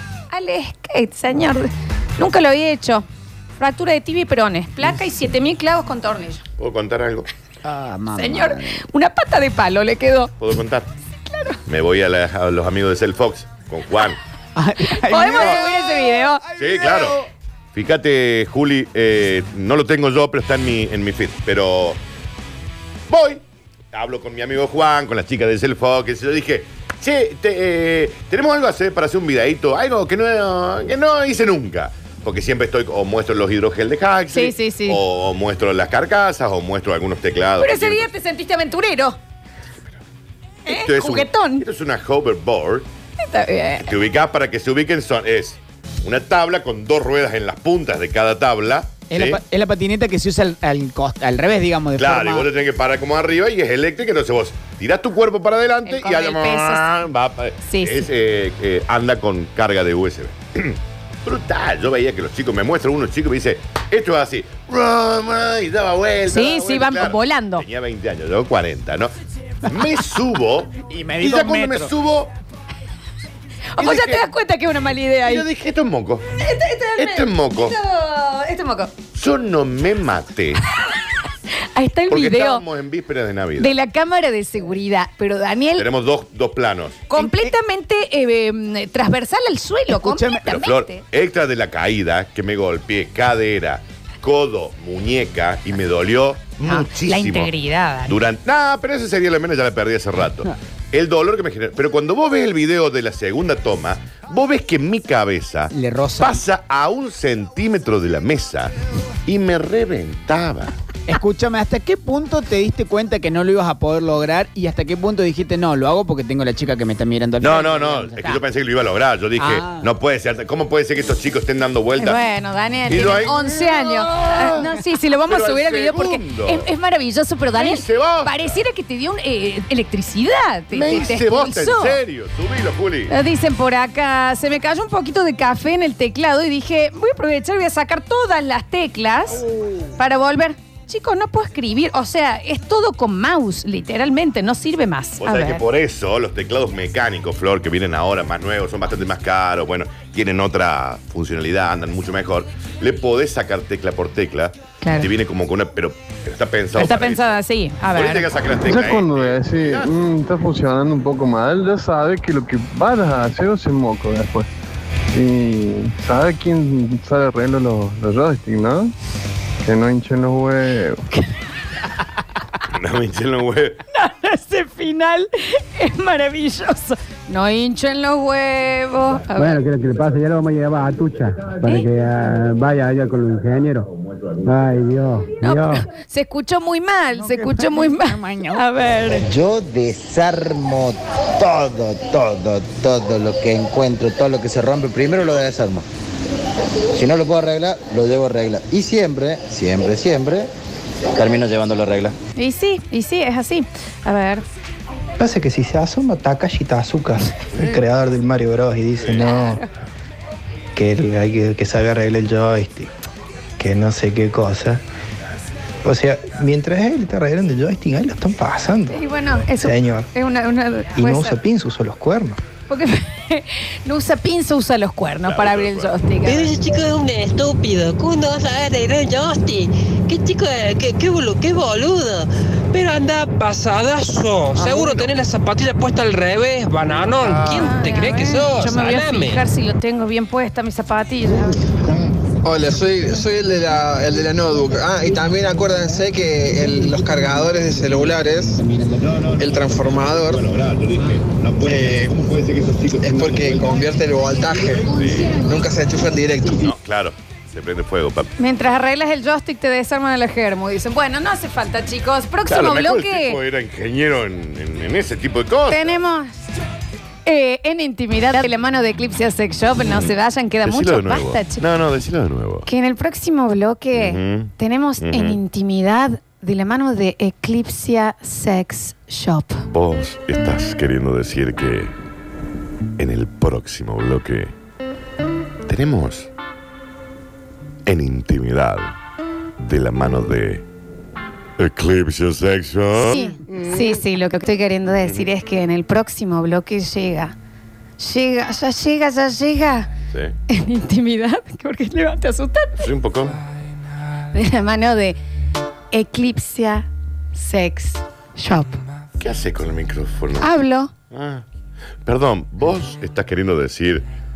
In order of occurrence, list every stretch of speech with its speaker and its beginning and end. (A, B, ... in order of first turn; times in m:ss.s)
0:00.3-0:03.1 A
0:03.6-0:06.4 A
0:06.6-0:07.3 B
0:07.6-0:08.8 C
0:08.1-0:10.3 A
0:10.4-0:10.9 B
0:11.3-0:11.6 A
0:11.7-0:14.2 B
0:14.6-0:16.2 C
0:15.0-0:16.4 A
0:15.4-0:15.8 B
0:16.6-0:17.2 B
0:17.7-0:22.0 B
0:23.1-0:38.1 B
0:34.3-0:35.0 A
0:37.6-0:39.2 A
0:40.7-0:41.7 A
0:40.7-0:42.9 B
0:43.2-0:43.9 A
0:43.8-0:49.4 B
0:49.0-0:52.5 C
0:52.0-1:09.1 B
0:55.9-0:56.9 A
0:57.6-0:58.1 A
1:06.3-1:07.7 A
1:09.6-1:12.3 B
1:10.9-1:11.9 C
1:13.8-1:15.4 A
1:13.8-1:14.2 B
1:15.2-1:16.3 B
1:16.4-1:18.9 A
1:17.0-1:17.8 B
1:19.1-1:20.6 B
1:21.8-1:22.6 A
1:22.1-1:23.8 B
1:23.6-1:25.9 A
1:25.8-1:27.1 B
1:27.1-1:31.0 A
1:27.1-1:27.5 C
1:29.9-1:30.4 C
1:30.4-1:37.5 B
1:36.6-1:38.2 A
1:38.1-1:48.7 B
1:45.8-1:46.4 C
1:49.3-1:50.8 B
1:51.1-1:58.4 C
1:57.4-2:02.2 B
1:59.4-1:59.8 C
2:02.0-2:12.0 A
2:02.9-2:06.7 B
2:07.5-2:08.5 B
2:10.7-2:13.2 B
2:13.1-2:19.4 A
2:19.5-2:19.8 B
2:20.0-2:25.6 A
2:25.2-2:37.4 B
2:34.8-2:35.1 A
2:36.8-2:38.3 A
2:37.9-2:40.1 B
2:38.6-2:44.5 D
2:45.2-2:48.9 D
2:49.7-2:51.0 D
2:52.7-2:53.8 B
2:53.9-2:59.7 A
2:59.5-3:03.8 E
3:04.7-3:05.8 E
3:05.4-3:09.3 A
3:07.1-3:08.6 C
3:09.2-3:15.8 F
3:16.9-3:20.5 F
3:21.2-3:22.2 F
3:22.4-3:24.4 A
3:25.2-3:29.6 G
3:30.8-3:32.9 G
3:33.6-3:34.8 G
3:35.8-3:39.0 G
3:38.9-3:41.4 A
3:39.6-3:40.1 G
3:41.0-3:42.4 G
3:42.7-3:46.6 A
3:45.2-3:46.0 B
3:46.2-3:59.4 H
3:54.6-3:55.1 B
3:57.2-3:57.7 I
3:57.4-4:01.6 A
4:02.4-4:08.6 I
4:09.0-4:13.8 B
4:09.4-4:10.5 I
4:11.6-4:12.2 I
4:13.0-4:16.7 I
4:15.0-4:15.3 B
4:16.6-4:18.3 B
4:18.4-4:23.4 A
4:22.5-4:26.0 B
4:25.7-4:26.4 A
4:27.3-4:31.6 A
4:29.8-4:32.7 B
4:32.7-4:39.6 A
4:33.9-4:35.4 B
4:39.7-4:41.9 B
4:43.0-4:44.5 B
4:45.7-4:46.3 B
4:47.9-4:49.0 B
4:49.6-4:50.6 B
4:51.6-4:53.7 B
4:53.1-4:57.4 A
4:58.0-4:59.9 A
5:00.1-5:00.4 B
5:00.5-5:02.9 A
5:02.8-5:03.4 B
5:04.3-5:05.2 A
5:05.9-5:08.8 A
5:09.2-5:10.6 B
5:10.4-5:10.9 A
5:11.1-5:11.4 B
5:12.1-5:14.1 B